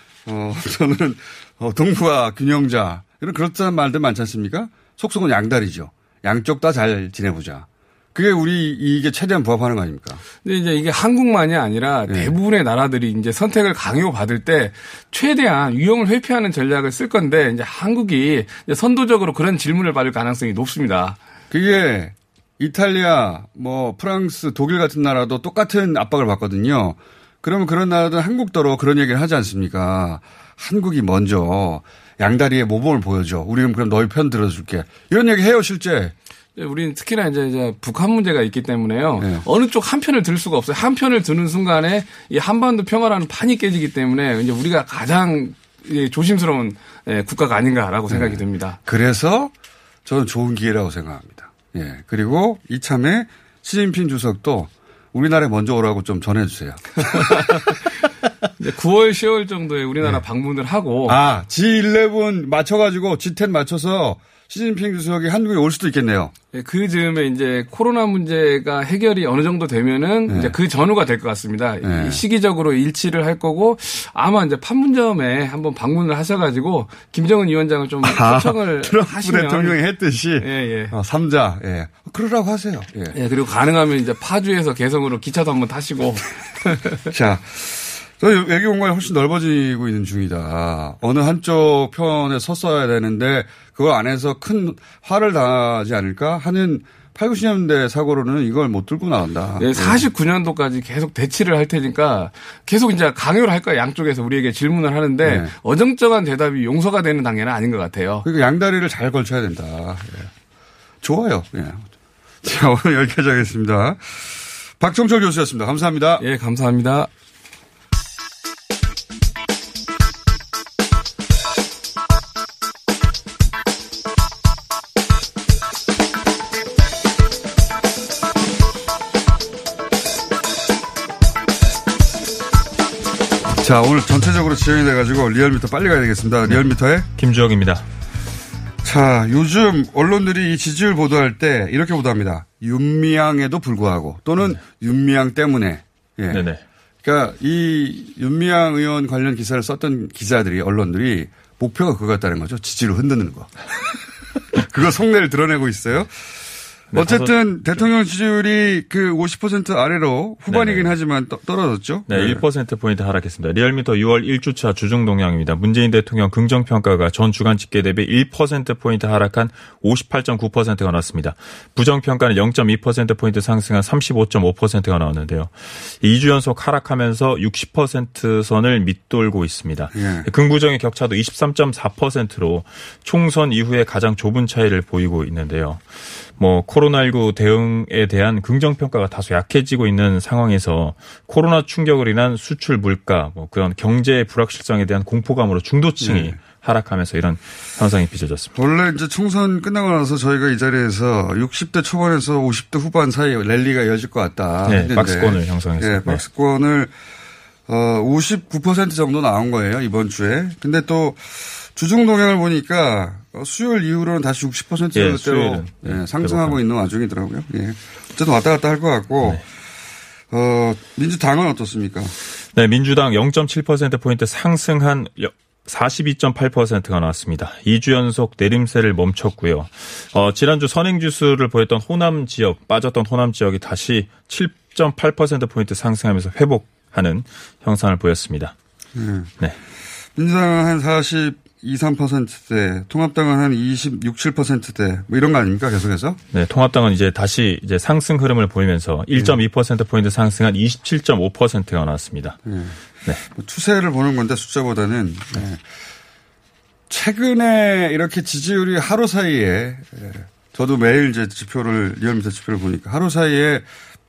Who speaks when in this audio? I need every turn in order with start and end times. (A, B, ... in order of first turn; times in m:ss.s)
0:00.3-0:10.2 A
0:10.4-0:21.2 B
0:12.1-0:12.3 A
0:21.5-0:36.1 A
0:36.6-0:48.8 B
0:39.2-0:39.4 A
0:48.1-0:49.5 A
0:50.0-0:57.3 A
0:57.1-0:57.7 B
0:58.6-1:01.2 B
1:01.1-1:06.3 A
1:06.5-1:19.8 B
1:10.3-1:10.6 A
1:11.8-1:12.2 A
1:18.0-1:23.2 A
1:20.4-1:20.9 B
1:23.1-1:27.0 B
1:27.1-1:40.0 A
1:39.6-1:48.3 B
1:45.2-1:45.5 A
1:48.2-1:50.3 A
1:51.0-1:51.9 A
1:52.4-1:56.2 A
1:56.2-1:57.1 B
2:13.6-2:17.1 A
2:17.2-2:17.8 C
2:18.8-2:26.5 A
2:26.3-2:26.6 C
2:27.0-2:33.5 A
2:34.6-2:36.1 A
2:36.9-2:37.8 C
2:36.9-2:42.4 A
2:40.5-2:40.9 C
2:42.1-3:18.6 C
2:59.9-3:00.3 A
3:16.0-3:16.4 A
3:18.6-3:26.9 A
3:24.6-3:26.2 C
3:27.7-3:39.4 A
3:34.9-3:36.6 C
3:40.3-3:42.1 A
3:42.5-3:58.6 C
3:59.0-3:59.3 A
4:00.2-4:06.2 A
4:06.3-4:12.4 C
4:12.5-4:12.8 A
4:13.3-4:15.6 A
4:16.9-4:23.7 A